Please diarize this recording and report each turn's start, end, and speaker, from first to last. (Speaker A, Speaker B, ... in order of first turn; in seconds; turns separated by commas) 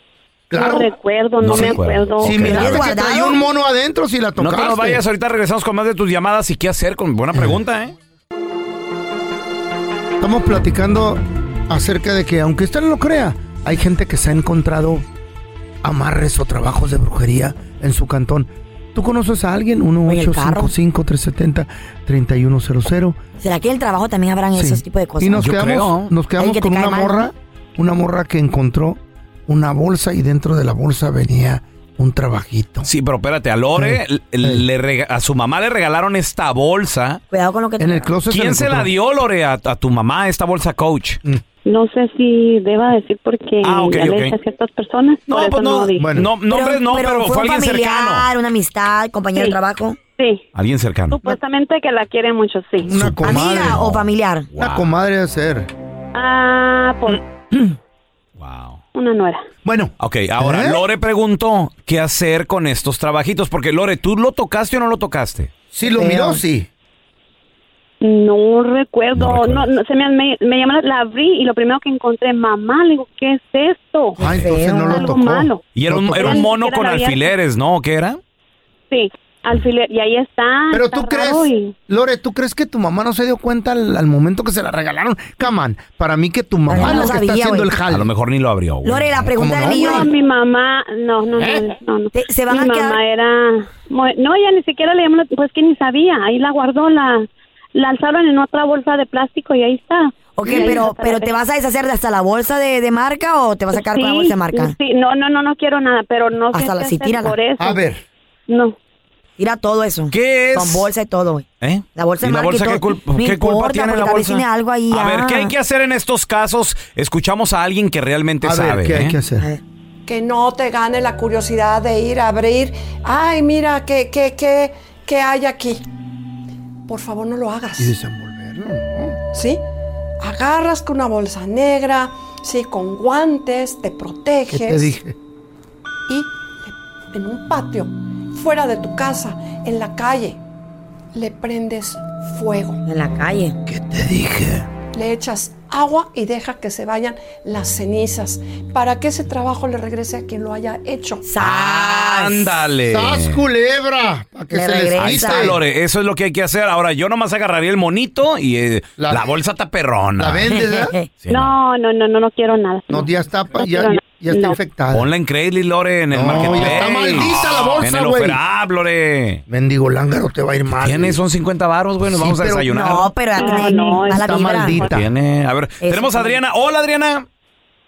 Speaker A: 0.5-0.9, Speaker B: 0.5-2.7, Speaker C: 1.4-2.9, Speaker A: 1.4-5.0, Speaker D: 2.4-3.4, Speaker C: 4.4-7.9, Speaker A: 10.2-15.0, Speaker A: 15.8-23.2, Speaker D: 20.1-20.7, Speaker D: 23.4-25.4, Speaker A: 24.5-32.9, Speaker C: 25.4-26.1, Speaker D: 26.4-27.3, Speaker C: 32.8-37.2, Speaker A: 33.7-34.6, Speaker D: 37.3-38.1, Speaker A: 37.8-38.9, Speaker C: 38.3-41.2, Speaker B: 41.6-46.1, Speaker C: 43.6-44.3, Speaker C: 45.3-48.3, Speaker A: 46.0-46.3, Speaker D: 46.5-50.0, Speaker B: 50.2-50.4, Speaker C: 50.5-51.2, Speaker B: 51.1-52.9, Speaker A: 52.8-53.8, Speaker C: 52.9-54.9, Speaker D: 53.2-54.5, Speaker A: 54.6-55.7, Speaker B: 56.1-57.2, Speaker C: 58.4-58.8, Speaker B: 58.9-59.4, Speaker A: 59.6-60.8, Speaker C: 60.0-65.5, Speaker A: 65.7-66.7, Speaker D: 65.9-66.4, Speaker B: 68.0-74.2, Speaker C: 69.2-69.7, Speaker D: 74.2-75.1, Speaker A: 74.2-76.4, Speaker B: 74.7-77.3, Speaker C: 75.7-78.2, Speaker B: 78.9-81.7, Speaker A: 80.7-88.1, Speaker D: 86.7-87.7, Speaker C: 87.9-89.1, Speaker D: 88.8-90.1, Speaker A: 89.3-90.1, Speaker B: 89.6-101.3, Speaker A: 91.4-91.6, Speaker D: 92.1-93.0, Speaker D: 100.4-104.8, Speaker A: 100.5-100.8, Speaker B: 103.7-107.8, Speaker D: 106.5-107.4, Speaker A: 107.6-108.0, Speaker B: 108.5-108.8, Speaker D: 109.4-115.5, Speaker C: 110.1-110.9, Speaker C: 111.6-119.2, Speaker A: 118.4-119.4, Speaker E: 120.0-125.8, Speaker E: 126.9-127.9, Speaker A: 127.8-129.2, Speaker E: 129.3-129.6, Speaker E: 130.2-134.9, Speaker A: 134.5-135.1, Speaker E: 136.1-140.4, Speaker E: 141.1-142.8, Speaker D: 142.8-143.6, Speaker A: 143.7-144.7, Speaker E: 144.9-151.3, Speaker D: 151.2-152.6, Speaker C: 151.4-153.4, Speaker A: 152.9-155.6, Speaker D: 154.5-155.6, Speaker C: 155.0-160.5, Speaker A: 159.0-159.2, Speaker A: 160.2-160.9, Speaker D: 160.5-161.1, Speaker C: 161.2-161.5, Speaker B: 161.3-164.6, Speaker A: 162.9-165.1, Speaker C: 164.9-169.4, Speaker A: 166.1-168.4, Speaker A: 169.5-171.2, Speaker C: 170.7-173.1, Speaker A: 172.0-172.7, Speaker D: 172.7-174.8, Speaker B: 173.3-174.9, Speaker A: 174.1-175.1, Speaker C: 174.8-177.2, Speaker D: 175.8-176.4